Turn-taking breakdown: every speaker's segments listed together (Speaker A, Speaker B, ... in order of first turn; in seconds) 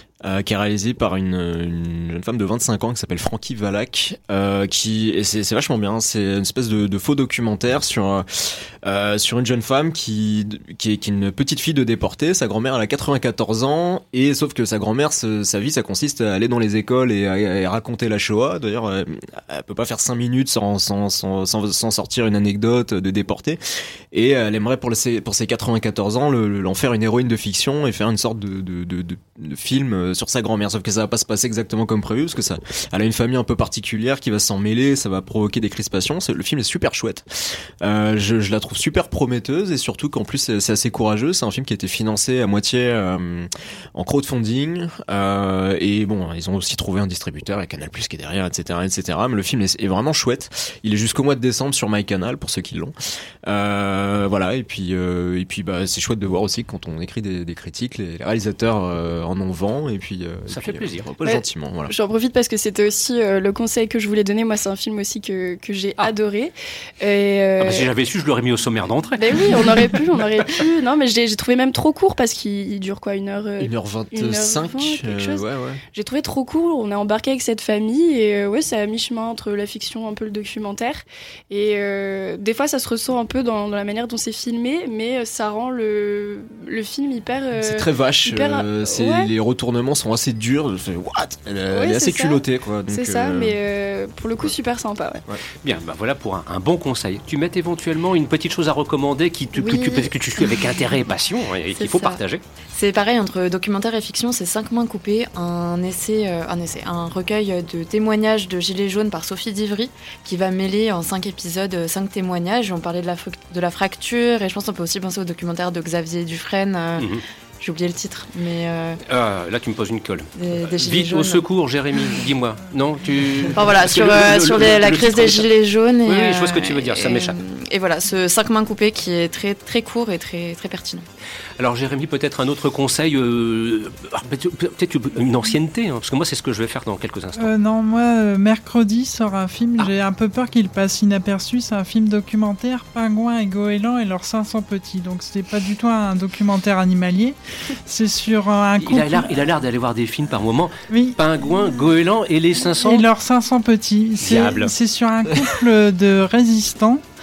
Speaker A: 0.2-23.6, 24.1-61.9, 73.6-75.8, 87.6-93.6
Speaker B: 60.5-61.1, 67.6-70.0, 95.6-102.4, 117.0-117.2, 119.1-125.5, 126.1-127.4, 131.6-137.5, 148.8-153.1, 154.2-154.7
Speaker C: 61.2-67.9, 69.2-89.3, 91.7-95.2, 99.6-100.1
Speaker D: 101.8-102.2, 102.7-119.0, 120.3-122.2, 123.5-131.1
Speaker E: 137.4-149.4, 150.9-151.2, 152.8-157.0